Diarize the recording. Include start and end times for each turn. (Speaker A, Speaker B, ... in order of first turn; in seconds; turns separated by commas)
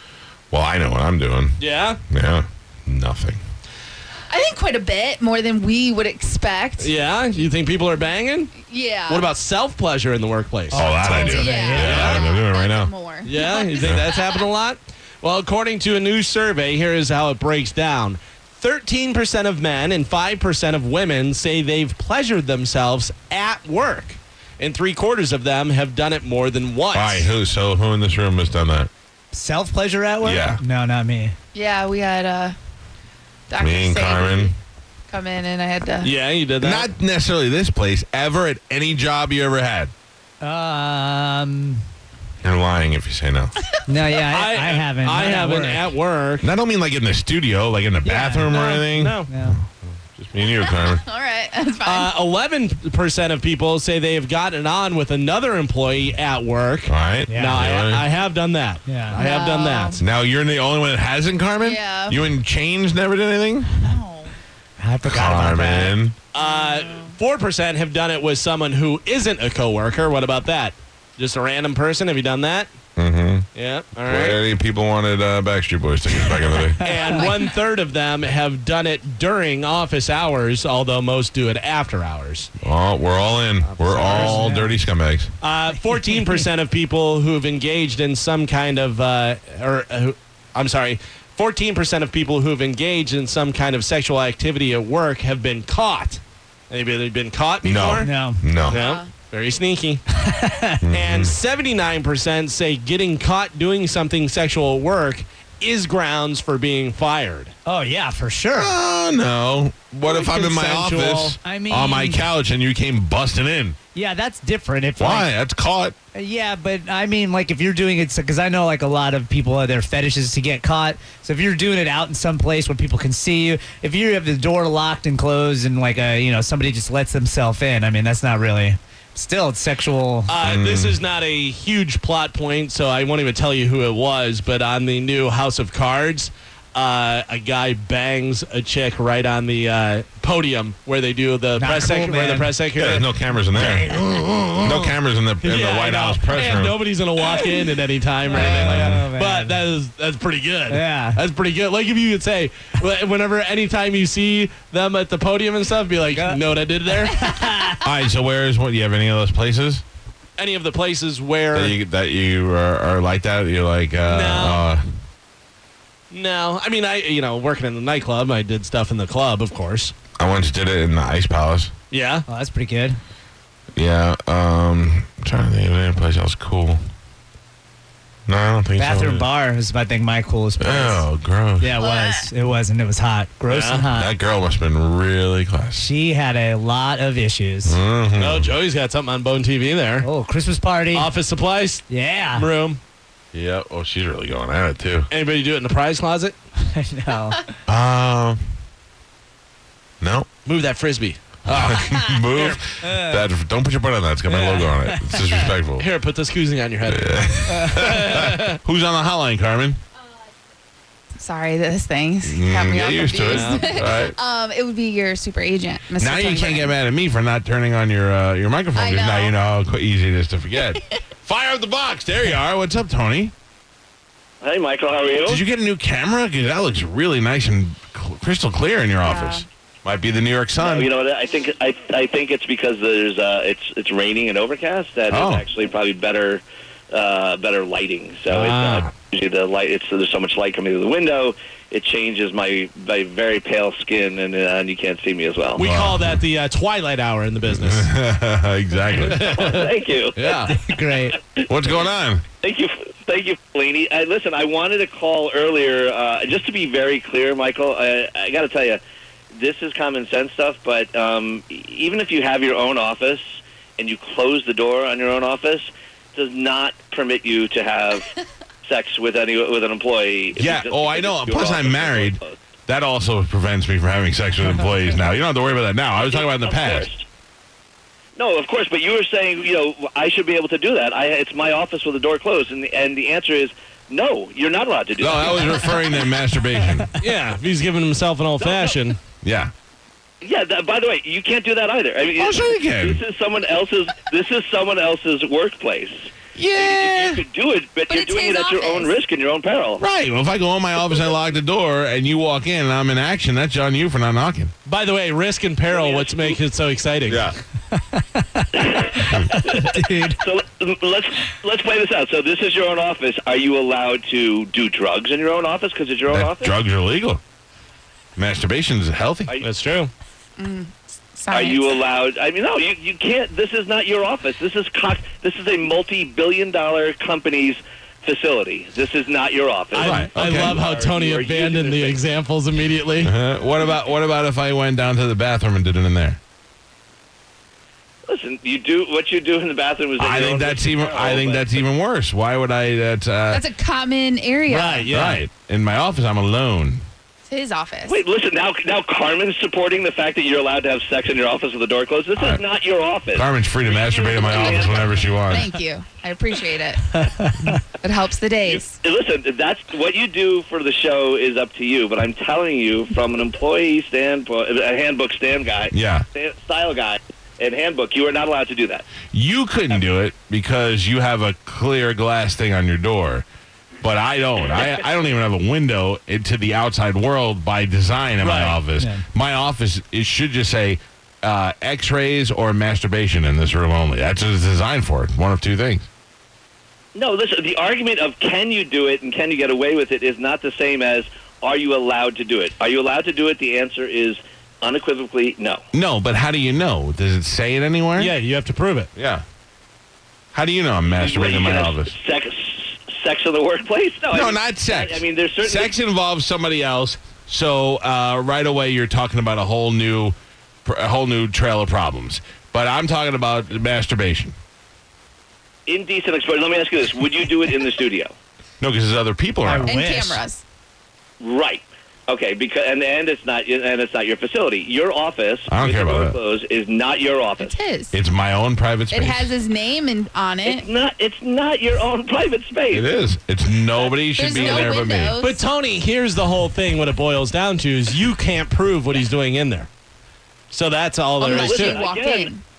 Speaker A: 0.5-1.6, Speaker B: 1.6-2.0, Speaker A: 2.1-3.4, Speaker C: 4.3-6.9, Speaker B: 6.8-8.5, Speaker C: 8.5-9.3, Speaker B: 9.1-12.2, Speaker D: 10.7-12.0, Speaker A: 10.8-12.9, Speaker C: 11.1-14.4, Speaker B: 13.2-27.3, Speaker A: 13.8-14.1, Speaker A: 26.9-28.9, Speaker D: 29.3-31.4, Speaker A: 30.2-30.6, Speaker C: 31.5-32.5, Speaker C: 33.5-34.6, Speaker A: 33.6-34.5, Speaker C: 35.1-36.1, Speaker B: 36.0-36.9, Speaker A: 36.6-39.9, Speaker D: 40.4-41.8, Speaker A: 42.4-43.5, Speaker D: 43.9-45.9, Speaker B: 44.3-46.5, Speaker A: 46.4-51.0, Speaker D: 48.0-48.7, Speaker B: 48.5-49.3, Speaker D: 49.2-49.6, Speaker C: 50.6-52.1, Speaker B: 51.8-60.0, Speaker A: 56.9-58.0, Speaker D: 57.3-57.6, Speaker D: 58.9-59.2, Speaker C: 59.2-60.0, Speaker A: 60.0-63.8, Speaker C: 61.6-62.2, Speaker C: 63.8-64.4, Speaker D: 64.8-65.9, Speaker A: 65.0-66.2, Speaker B: 66.3-72.7, Speaker C: 66.3-67.2, Speaker A: 73.0-73.5, Speaker B: 73.5-74.4, Speaker A: 74.1-76.8, Speaker B: 76.8-82.5, Speaker A: 82.6-85.3, Speaker B: 83.6-84.6, Speaker D: 84.2-84.7, Speaker B: 85.4-98.1, Speaker A: 97.6-98.8, Speaker D: 98.0-98.5, Speaker C: 98.7-99.1, Speaker B: 98.7-100.0, Speaker D: 100.2-100.9, Speaker A: 100.8-101.3, Speaker B: 100.9-107.5, Speaker D: 107.7-108.7, Speaker A: 108.5-113.8, Speaker B: 110.0-111.4, Speaker D: 111.4-112.2, Speaker D: 113.9-115.3, Speaker A: 115.0-115.9, Speaker D: 116.1-130.4, Speaker B: 130.3-143.9, Speaker A: 130.4-130.9, Speaker D: 141.6-142.5, Speaker A: 142.8-146.8, Speaker B: 144.7-157.4, Speaker D: 148.3-149.7, Speaker A: 148.4-149.0, Speaker D: 150.7-151.2, Speaker D: 156.1-156.4, Speaker D: 157.2-157.8, Speaker A: 157.8-159.8, Speaker B: 160.4-161.8, Speaker A: 161.5-164.8, Speaker B: 164.0-164.7, Speaker B: 166.1-169.9, Speaker A: 170.2-171.7, Speaker B: 171.9-172.3, Speaker D: 172.3-173.0, Speaker A: 173.7-176.8, Speaker A: 178.3-179.3, Speaker D: 178.8-181.1, Speaker A: 180.6-181.7, Speaker D: 181.6-184.1, Speaker C: 181.8-182.3, Speaker B: 183.5-183.9, Speaker A: 183.9-185.9, Speaker D: 185.8-187.8, Speaker A: 187.6-188.5, Speaker B: 188.2-190.1, Speaker D: 190.0-191.1, Speaker B: 190.9-192.8, Speaker D: 191.9-192.5, Speaker A: 193.3-195.1, Speaker B: 195.1-196.4, Speaker D: 196.6-197.3, Speaker A: 197.7-198.4, Speaker A: 200.0-200.3, Speaker B: 200.4-202.6, Speaker A: 201.5-205.8, Speaker D: 201.9-202.1, Speaker D: 202.8-203.2, Speaker B: 204.3-204.7, Speaker B: 205.8-208.6, Speaker A: 206.9-209.8, Speaker C: 211.2-216.8, Speaker A: 212.2-214.2, Speaker B: 213.2-213.8, Speaker A: 216.0-223.3, Speaker C: 218.7-219.4, Speaker E: 224.4-225.4, Speaker A: 225.2-230.9, Speaker C: 229.0-229.5, Speaker E: 230.6-245.7, Speaker A: 235.1-235.4, Speaker B: 238.3-238.9, Speaker B: 245.5-247.9, Speaker A: 245.6-246.2, Speaker A: 247.6-249.6, Speaker B: 249.0-250.5, Speaker E: 249.2-250.6, Speaker D: 250.5-251.2, Speaker A: 251.4-252.2, Speaker E: 252.4-258.8, Speaker E: 259.3-268.1, Speaker E: 268.6-272.4, Speaker A: 270.3-276.9, Speaker E: 276.0-277.1, Speaker E: 278.1-285.9, Speaker A: 285.0-286.9, Speaker B: 287.0-289.0, Speaker E: 288.4-288.9, Speaker A: 289.2-289.5, Speaker E: 290.2-299.8, Speaker A: 292.1-293.0, Speaker A: 296.4-297.2, Speaker C: 297.9-299.0, Speaker A: 299.8-304.5, Speaker B: 304.6-307.3, Speaker E: 305.7-306.4, Speaker A: 307.1-307.3, Speaker D: 307.7-308.4, Speaker E: 308.5-316.5, Speaker D: 309.3-310.2, Speaker A: 316.1-317.2, Speaker A: 318.1-319.3, Speaker B: 319.4-319.9, Speaker C: 320.4-321.8, Speaker E: 321.3-332.0, Speaker B: 329.7-333.1, Speaker A: 329.8-330.6, Speaker A: 333.0-336.2, Speaker E: 338.1-341.6, Speaker A: 340.0-343.4, Speaker C: 343.3-344.9, Speaker B: 344.5-345.2, Speaker A: 344.9-346.8, Speaker C: 347.3-348.0, Speaker E: 347.8-355.4, Speaker A: 352.1-352.4, Speaker A: 353.1-355.6, Speaker C: 354.3-354.6, Speaker C: 355.3-356.9, Speaker D: 356.9-357.6, Speaker C: 357.8-358.8, Speaker E: 358.4-368.8, Speaker A: 365.7-366.1, Speaker A: 369.1-373.2, Speaker A: 373.8-385.9, Speaker B: 378.2-378.6, Speaker D: 378.8-379.0, Speaker E: 386.9-395.6, Speaker A: 395.7-398.1, Speaker B: 397.9-398.9, Speaker A: 398.9-399.2, Speaker A: 400.3-401.9, Speaker E: 400.9-405.7, Speaker A: 404.1-414.3, Speaker E: 415.7-418.1, Speaker A: 418.6-420.2, Speaker D: 419.4-420.2, Speaker C: 419.6-420.4, Speaker E: 421.2-427.6, Speaker A: 425.5-426.2, Speaker C: 427.4-427.9, Speaker A: 427.9-429.3, Speaker C: 428.9-430.7, Speaker E: 430.4-432.9, Speaker A: 432.7-435.2, Speaker C: 434.1-435.4, Speaker B: 435.2-439.7, Speaker B: 440.5-441.8, Speaker E: 441.2-442.3, Speaker C: 441.2-442.4